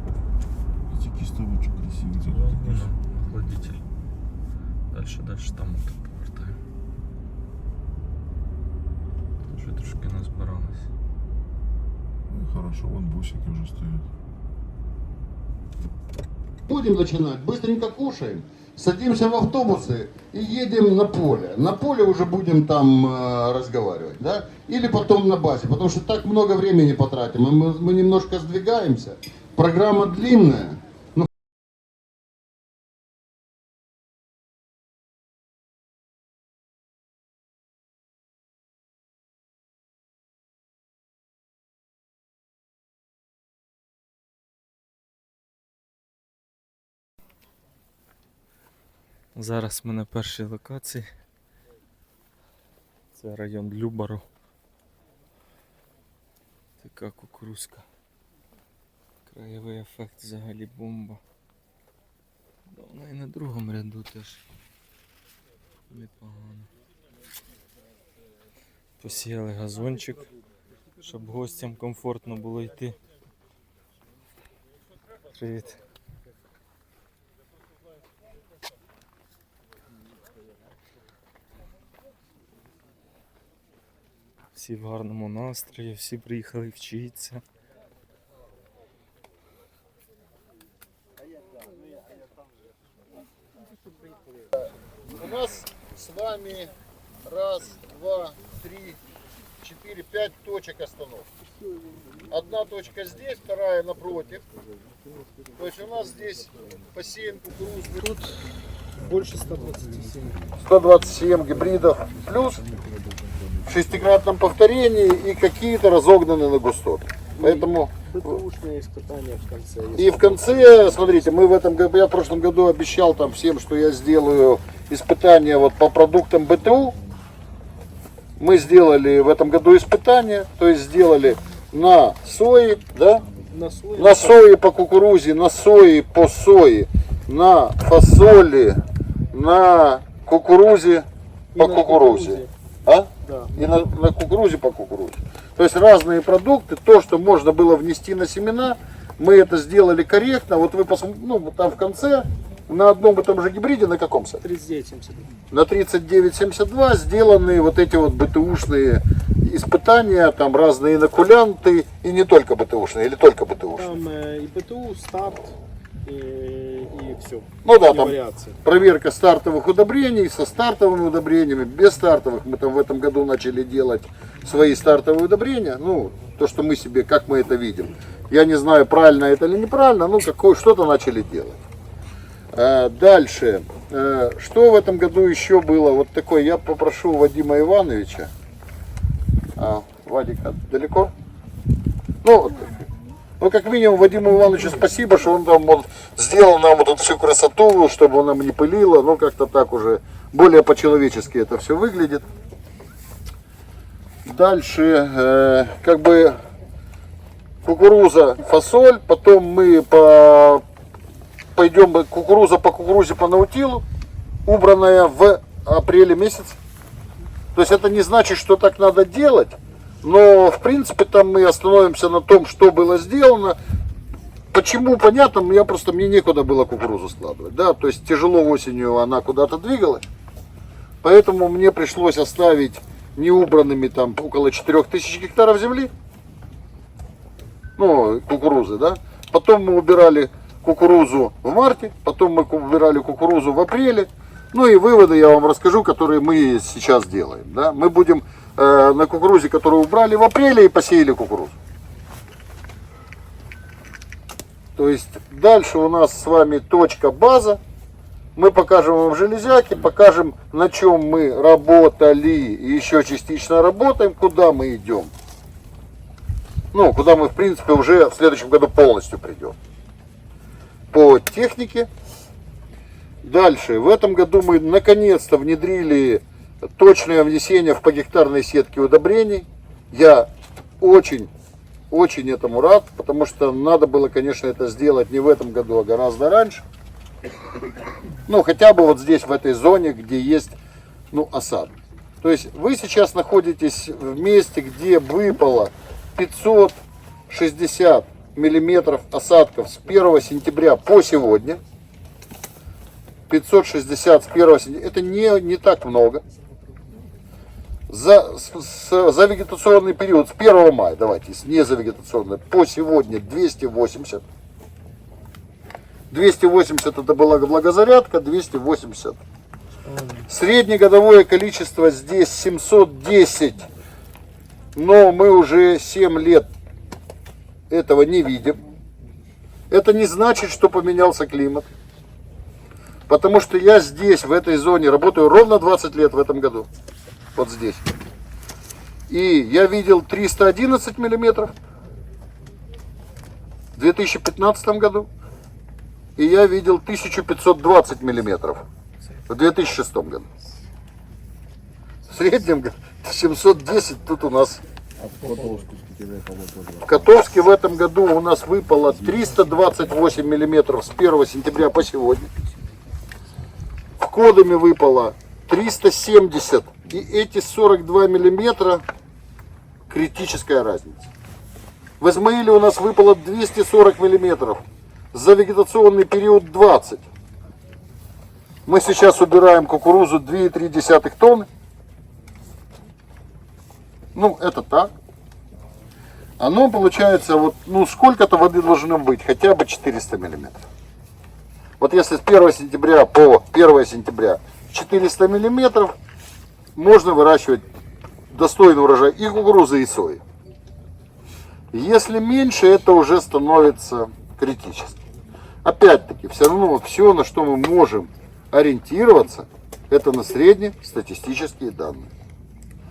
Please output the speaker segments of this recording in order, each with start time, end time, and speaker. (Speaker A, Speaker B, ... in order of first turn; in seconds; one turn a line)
Speaker A: 0.9-2.9
Speaker B: 2.3-3.8
Speaker B: 4.9-6.6
Speaker B: 9.4-10.9
Speaker A: 12.3-14.1
Speaker C: 16.7-31.3
Speaker B: 49.4-51.1
Speaker B: 53.1-54.3
Speaker B: 56.8-57.9
Speaker B: 59.3-61.2
Speaker B: 62.7-64.4
Speaker B: 65.9-66.7
Speaker B: 69.0-70.3
Speaker B: 71.0-73.0
Speaker B: 75.3-75.8
Speaker B: 84.5-87.4
Speaker C: 95.1-96.7
Speaker C: 97.2-99.0
Speaker C: 99.6-101.3
Speaker C: 102.3-104.4
Speaker C: 105.6-108.0
Speaker D: 108.0-110.5
Speaker C: 110.6-112.7
Speaker C: 113.7-118.4
Speaker D: 117.4-120.8
Speaker C: 120.0-127.0
Speaker C: 128.4-133.3
Speaker D: 133.5-134.5
Speaker C: 133.9-154.4
Speaker D: 141.5-142.5
Speaker D: 143.2-143.5
Speaker D: 154.4-155.3
Speaker C: 155.5-163.9
Speaker D: 163.8-168.6
Speaker C: 167.6-181.6
Speaker C: 182.5-188.3
Speaker C: 189.6-191.1
Speaker C: 192.2-192.7
Speaker C: 193.4-202.3
Speaker C: 204.2-206.4
Speaker C: 207.6-210.6
Speaker C: 211.6-213.8
Speaker C: 214.4-216.6
Speaker C: 217.6-223.6
Speaker C: 224.5-230.1
Speaker C: 231.0-235.9
Speaker C: 237.8-251.6
Speaker C: 254.8-257.6
Speaker C: 258.4-265.1
Speaker C: 266.7-269.6
Speaker C: 270.9-271.9
Speaker C: 273.2-276.2
Speaker C: 276.8-281.3
Speaker C: 281.9-286.6
Speaker C: 288.3-290.6
Speaker C: 291.1-301.6
Speaker C: 303.3-306.2
Speaker C: 307.9-314.2
Speaker C: 316.1-319.2
Speaker D: 319.9-320.2
Speaker C: 320.3-323.7
Speaker C: 324.8-326.5
Speaker C: 327.7-328.6
Speaker C: 329.7-331.7
Speaker C: 333.1-336.7
Speaker C: 337.4-337.8
Speaker C: 339.1-341.5
Speaker C: 343.8-345.1
Speaker C: 346.2-348.7
Speaker C: 349.3-350.3
Speaker C: 352.1-354.6
Speaker A: 355.2-356.9
Speaker C: 356.9-362.3
Speaker C: 364.0-368.8
Speaker C: 369.9-371.1
Speaker C: 372.0-377.0
Speaker C: 378.7-381.5
Speaker C: 384.1-384.9
Speaker C: 386.4-390.6
Speaker C: 391.8-395.9
Speaker C: 396.8-397.6
Speaker C: 398.3-400.2
Speaker C: 401.7-405.0
Speaker C: 405.6-412.1